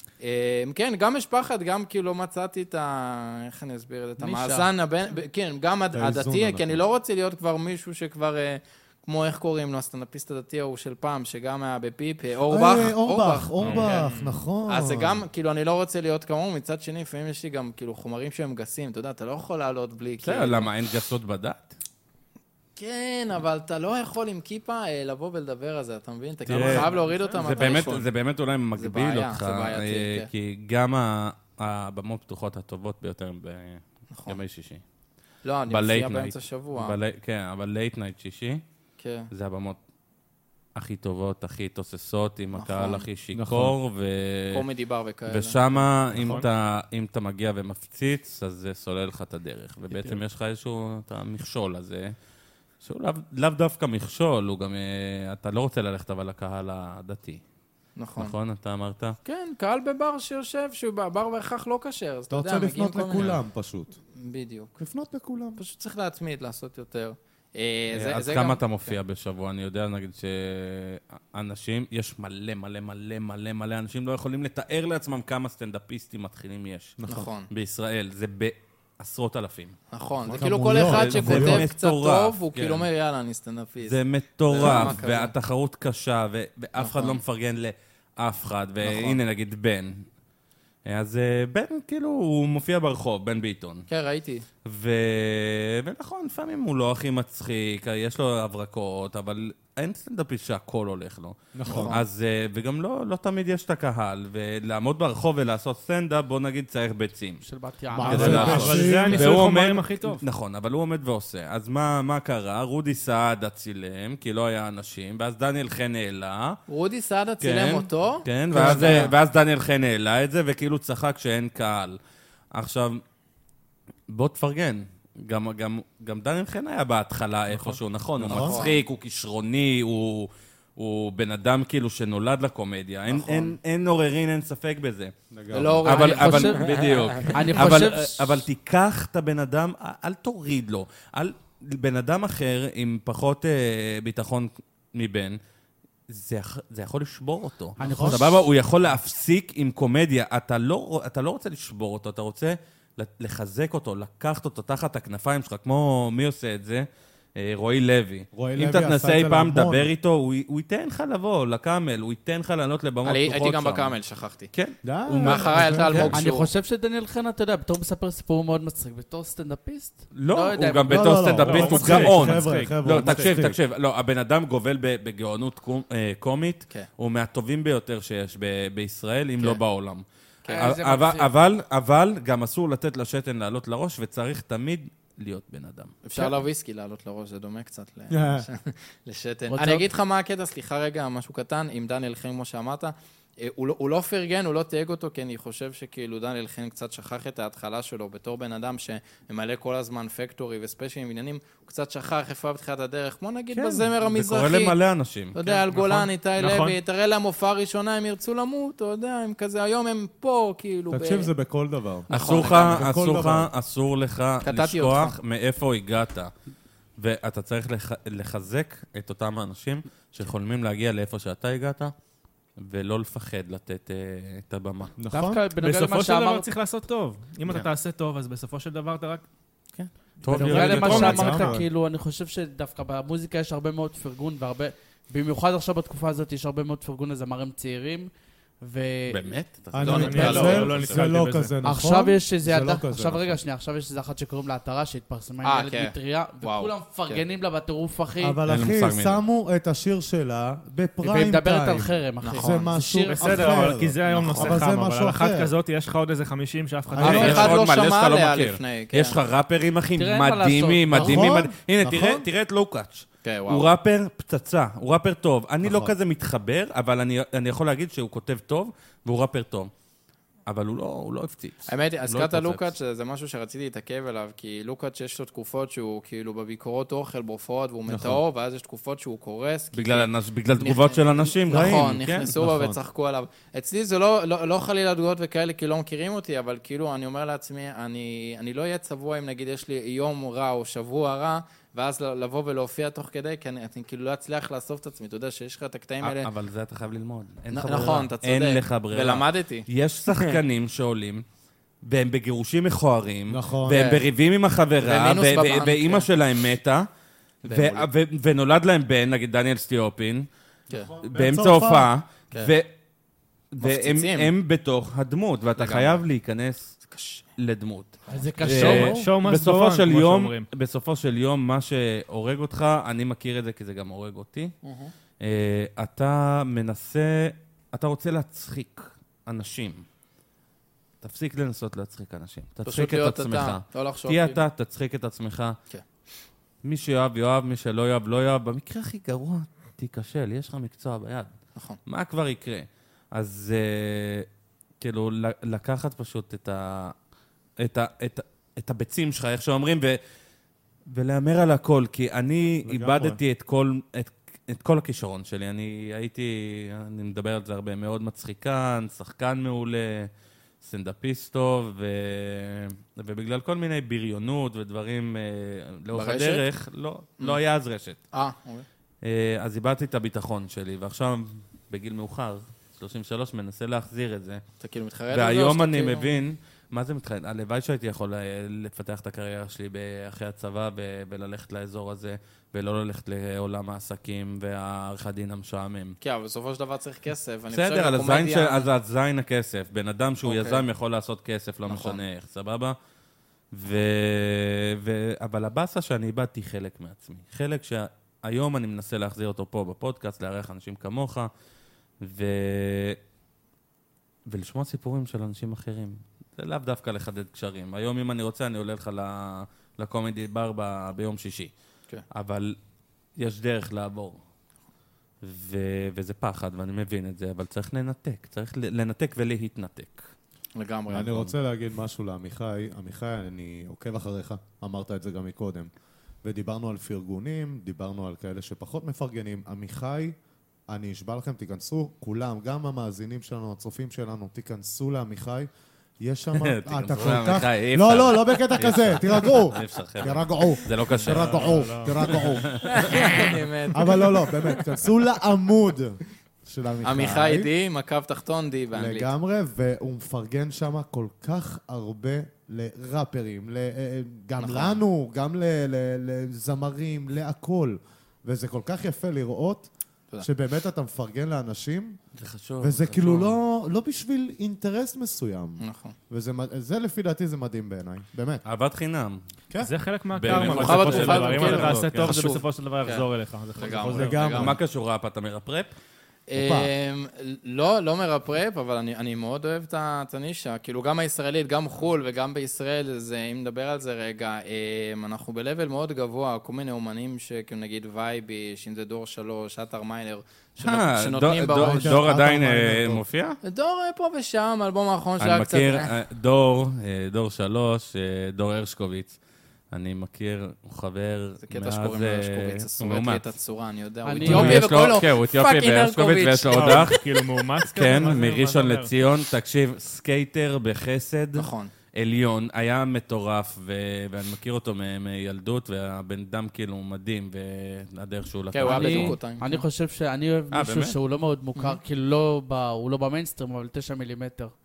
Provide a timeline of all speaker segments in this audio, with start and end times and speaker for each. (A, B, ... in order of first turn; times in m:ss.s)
0:00.2-0:14.1 A
0:04.2-0:04.7 B
0:05.9-0:06.8 C
0:12.5-0:15.3 C
0:13.6-0:13.9 D
0:13.7-0:14.4 E
0:14.7-0:20.7 A
0:20.2-0:21.7 D
0:22.8-0:28.1 A
0:26.5-0:34.8 D
0:26.6-0:27.6 E
0:28.8-0:30.3 A
0:34.1-0:34.4 A
0:35.4-0:37.0 A
0:35.7-0:38.6 D
0:39.0-0:39.3 A
0:39.3-0:39.8 D
0:40.8-0:44.7 D
0:42.5-0:43.1 A
0:43.3-0:43.8 C
0:44.5-0:45.9 A
0:45.3-0:52.2 D
0:46.2-0:46.5 E
0:52.8-0:57.4 D
0:58.0-0:58.4 A
0:58.2-0:59.2 D
0:59.2-1:03.4 A
1:02.3-1:04.0 C
1:04.2-1:04.8 A
1:04.8-1:05.6 C
1:05.6-1:08.9 A
1:07.9-1:17.0 D
1:17.0-1:17.3 C
1:17.1-1:17.5 A
1:17.5-1:19.8 D
1:19.9-1:25.3 A
1:20.3-1:21.7 C
1:20.4-1:22.9 D
1:23.9-1:30.1 D
1:24.6-1:25.0 C
1:26.8-1:27.2 A
1:28.8-1:29.2 A
1:30.8-1:33.9 D
1:33.9-1:34.4 A
1:34.6-1:47.4 D
1:41.5-1:42.0 C
1:41.7-1:42.0 A
1:47.4-1:48.8 B
1:47.9-1:49.4 C
1:48.1-1:50.2 E
1:48.1-1:56.6 D
1:56.7-1:59.1 A
1:57.4-2:02.0 D
1:58.5-1:59.1 C
2:02.5-2:03.0 D
2:04.1-2:25.4 D
2:07.5-2:07.8 E
2:08.2-2:08.6 C
2:08.3-2:08.8 A
2:13.1-2:13.6 A
2:15.3-2:15.8 C
2:15.5-2:17.5 A
2:15.8-2:16.7 B
2:17.3-2:18.4 B
2:26.1-2:43.9 D
2:27.8-2:28.3 C
2:27.8-2:28.4 B
2:38.3-2:39.9 C
2:43.0-2:44.5 A
2:44.5-2:46.1 D
2:44.8-2:46.1 C
2:45.2-2:46.5 A
2:46.1-2:51.4 B
2:50.1-3:00.0 D
2:50.9-2:53.6 C
2:51.4-2:53.3 E
3:00.5-3:01.3 B
3:00.6-3:06.0 D
3:06.0-3:24.8 A
3:08.1-3:08.5 C
3:09.5-3:09.8 B
3:23.5-3:25.4 D
3:25.3-3:31.3 A
3:25.5-3:26.8 E
3:30.9-3:33.5 C
3:32.1-3:32.9 A
3:32.1-3:36.3 D
3:34.4-3:35.2 A
3:37.0-3:41.9 D
3:42.6-3:44.9 D
3:45.0-3:45.4 C
3:45.1-3:46.5 B
3:45.6-3:49.2 E
3:49.7-3:51.6 D
3:50.3-3:58.1 B
3:50.3-3:51.7 C
3:50.4-3:51.4 E
3:58.6-3:59.3 B
3:59.1-4:01.1 D
3:59.7-4:03.4 C
3:59.8-4:00.7 A
3:59.8-4:01.5 E
4:01.6-4:08.4 B
4:05.4-4:07.2 A
4:08.2-4:15.5 C
4:08.5-4:09.2 D
4:11.0-4:13.6 B
4:12.2-4:12.8 A
4:13.0-4:17.5 E
4:16.9-4:17.6 C
4:17.0-4:19.2 A
4:17.0-4:29.7 D
4:20.0-4:21.4 B
4:20.9-4:22.3 C
4:23.2-4:23.7 A
4:25.6-4:25.9 C
4:30.5-4:32.6 D
4:31.7-4:56.3 A
4:37.9-4:38.2 C
4:39.7-4:42.3 D
4:41.5-4:42.8 C
4:56.0-5:01.2 D
4:57.5-5:00.4 A
5:01.8-5:06.9 D
5:03.3-5:03.9 C
5:03.7-5:04.1 A
5:04.8-5:06.1 A
5:07.4-5:10.3 D
5:07.4-5:07.9 A
5:10.7-5:11.9 C
5:11.0-5:12.7 D
5:13.5-5:16.8 D
5:13.6-5:14.3 A
5:15.6-5:16.0 A
5:16.9-5:17.2 A
5:17.4-5:24.6 D
5:18.1-5:19.0 B
5:18.5-5:20.5 E
5:24.6-5:24.9 A
5:25.2-5:29.8 D
5:31.0-5:35.6 D
5:32.7-5:34.4 A
5:36.6-5:41.3 D
5:41.9-5:44.3 D
5:44.8-5:46.9 D
5:47.6-5:50.0 D
5:50.9-6:00.1 D
5:52.6-5:53.2 C
6:00.6-6:08.0 D
6:05.9-6:06.4 A
6:08.1-6:08.7 A
6:09.0-6:14.4 D
6:14.6-6:16.1 A
6:15.1-6:26.0 D
6:26.0-6:28.7 A
6:27.5-6:32.8 D
6:30.2-6:30.6 A
6:31.7-6:32.0 A
6:33.5-6:41.3 D
6:42.0-6:43.0 D
6:44.3-6:51.5 D
6:52.1-6:52.6 D
6:53.2-6:54.2 D
6:55.2-7:00.1 D
7:00.6-7:01.3 A
7:00.9-7:05.7 C
7:06.2-7:10.2 C
7:10.7-7:15.5 C
7:16.0-7:23.0 C
7:16.4-7:23.3 D
7:21.0-7:22.1 E
7:22.7-7:24.6 A
7:23.7-7:27.5 C
7:26.8-7:29.1 A
7:28.7-7:39.7 C
7:34.4-7:34.8 A
7:40.2-7:42.0 C
7:42.2-7:43.4 D
7:42.6-7:48.4 C
7:45.6-7:46.0 A
7:48.4-7:49.2 D
7:49.6-7:54.3 E
7:50.1-7:52.2 D
7:50.3-7:53.0 A
7:53.6-7:54.6 A
7:53.9-7:54.6 C
7:54.3-7:55.7 D
7:56.3-8:12.1 A
7:56.4-7:56.7 C
8:10.6-8:13.4 D
8:11.5-8:13.0 C
8:13.4-8:15.9 A
8:15.2-8:19.2 D
8:19.7-8:23.2 D
8:21.4-8:27.0 A
8:24.0-8:24.7 B
8:24.2-8:39.2 D
8:26.5-8:28.9 E
8:31.4-8:31.7 A
8:38.5-8:39.6 A
8:38.6-8:44.5 B
8:40.5-8:41.0 D